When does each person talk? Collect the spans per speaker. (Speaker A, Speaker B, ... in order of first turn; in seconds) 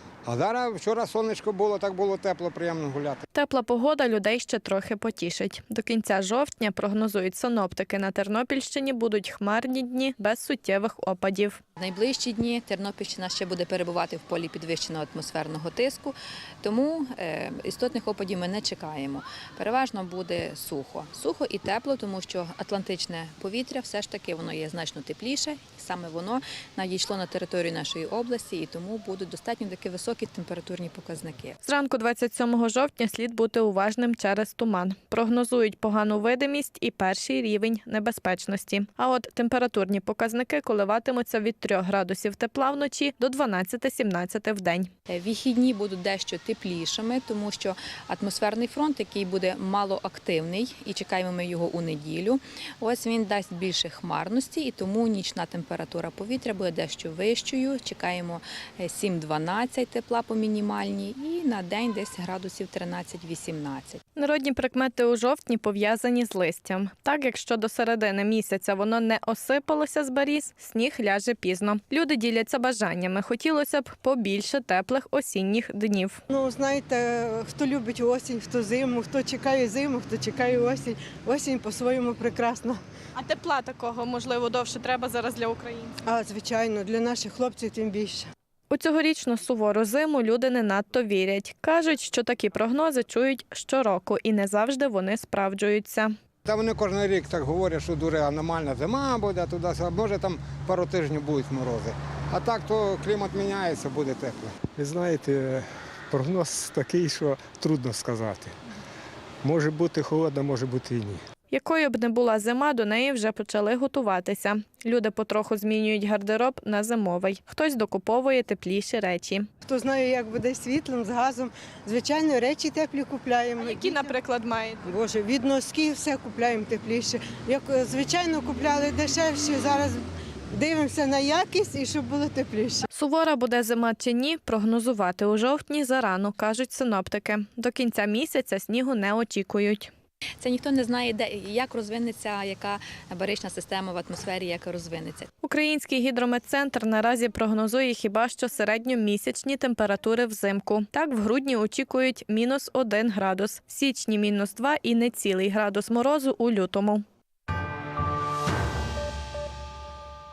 Speaker A: 0.2-3.2, 96.4-104.6
Speaker B: 3.3-11.6, 31.6-44.9, 64.2-76.2, 83.2-86.0, 88.7-96.1, 111.5-119.5, 123.6-124.8, 132.9-139.9, 145.4-157.0
Speaker C: 11.8-31.6, 45.1-64.0, 140.4-145.3
Speaker D: 76.3-82.8, 86.0-88.3, 119.6-124.1, 124.8-130.0, 130.5-132.9
Speaker E: 104.7-108.5, 109.4-111.2